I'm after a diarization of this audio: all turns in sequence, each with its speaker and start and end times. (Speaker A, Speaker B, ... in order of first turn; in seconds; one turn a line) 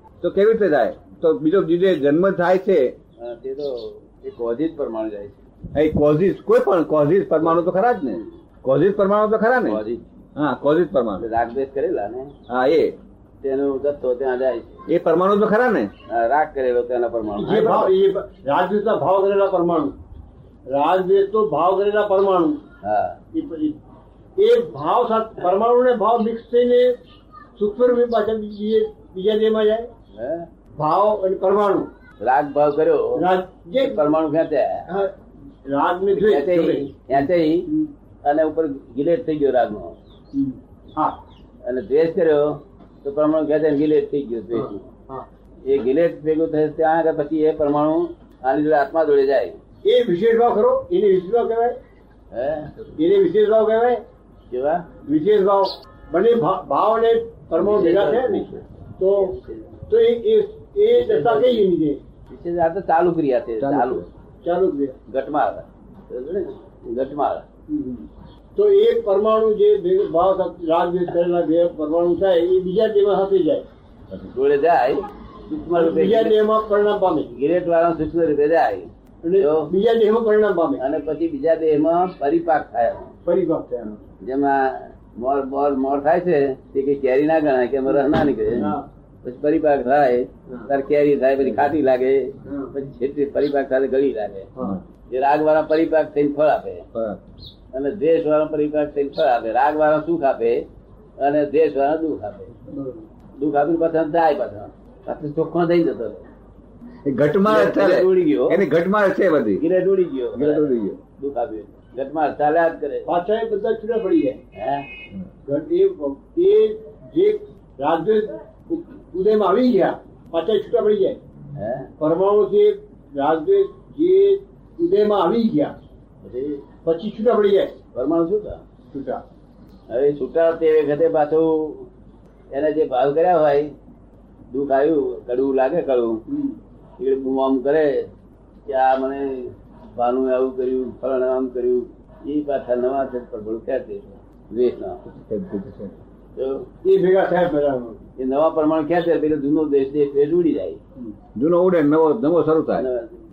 Speaker A: 0.2-2.9
Speaker B: 3.2-5.4
Speaker A: 5.7-9.8
Speaker B: 7.4-8.2
Speaker B: 9.6-10.0
Speaker A: 10.3-11.2
Speaker B: 11.2-12.3
Speaker A: 12.5-13.0
Speaker B: 13.4-14.8
Speaker A: 14.9-15.9
Speaker B: 16.1-17.9
Speaker C: 17.4-19.9
Speaker C: 20.7-22.6
Speaker B: 22.8-23.2
Speaker C: 23.3-23.8
Speaker C: 24.4-26.9
Speaker C: 27.6-29.9
Speaker B: 30.1-30.5
Speaker C: 30.8-31.9
Speaker B: 32.2-33.2
Speaker C: 33.1-34.1
Speaker B: 33.8-34.9
Speaker C: 34.9-35.1
Speaker C: 35.7-37.9
Speaker B: 36.1-37.7
Speaker B: 38.2-40.0
Speaker C: 40.3-41.2
Speaker B: 41.6-44.9
Speaker C: 44.5-45.3
Speaker B: 45.7-49.6
Speaker C: 49.8-51.8
Speaker B: 52.3-52.7
Speaker C: 53.0-54.0
Speaker B: 54.5-54.9
Speaker C: 55.0-59.3
Speaker B: 57.5-59.7
Speaker C: 59.9-62.0
Speaker B: 60.9-61.7
Speaker B: 62.3-64.1
Speaker A: 63.6-64.0
Speaker C: 64.4-65.0
Speaker B: 65.1-67.5
Speaker C: 67.7-73.7
Speaker B: 74.2-76.3
Speaker C: 75.7-77.3
Speaker B: 77.3-79.7
Speaker C: 79.2-80.8
Speaker B: 80.8-83.1
Speaker C: 83.2-84.0
Speaker B: 84.2-94.5
Speaker C: 88.5-88.8
Speaker C: 92.5-92.7
Speaker B: 95.1-96.8
Speaker A: 96.9-97.2
Speaker B: 97.7-100.6
Speaker B: 101.2-102.5
Speaker C: 102.7-103.0
Speaker B: 103.4-106.3
Speaker A: 107.0-109.6
Speaker B: 107.5-108.6
Speaker B: 109.6-113.1
Speaker A: 110.3-111.0
Speaker C: 113.0-114.4
Speaker B: 114.5-114.9
Speaker C: 115.5-121.2
Speaker B: 121.5-121.9
Speaker C: 122.0-125.7
Speaker B: 126.2-126.6
Speaker C: 126.8-127.7
Speaker B: 127.9-128.6
Speaker C: 128.9-129.2
Speaker B: 129.9-131.9
Speaker B: 132.5-133.7
Speaker B: 134.5-136.2
Speaker C: 136.3-136.6
Speaker B: 137.0-138.1
Speaker B: 138.7-145.0
Speaker A: 145.1-145.9
Speaker B: 146.3-146.7
Speaker C: 146.8-148.0
Speaker B: 148.2-150.8
Speaker A: 151.3-152.8
Speaker B: 152.8-153.2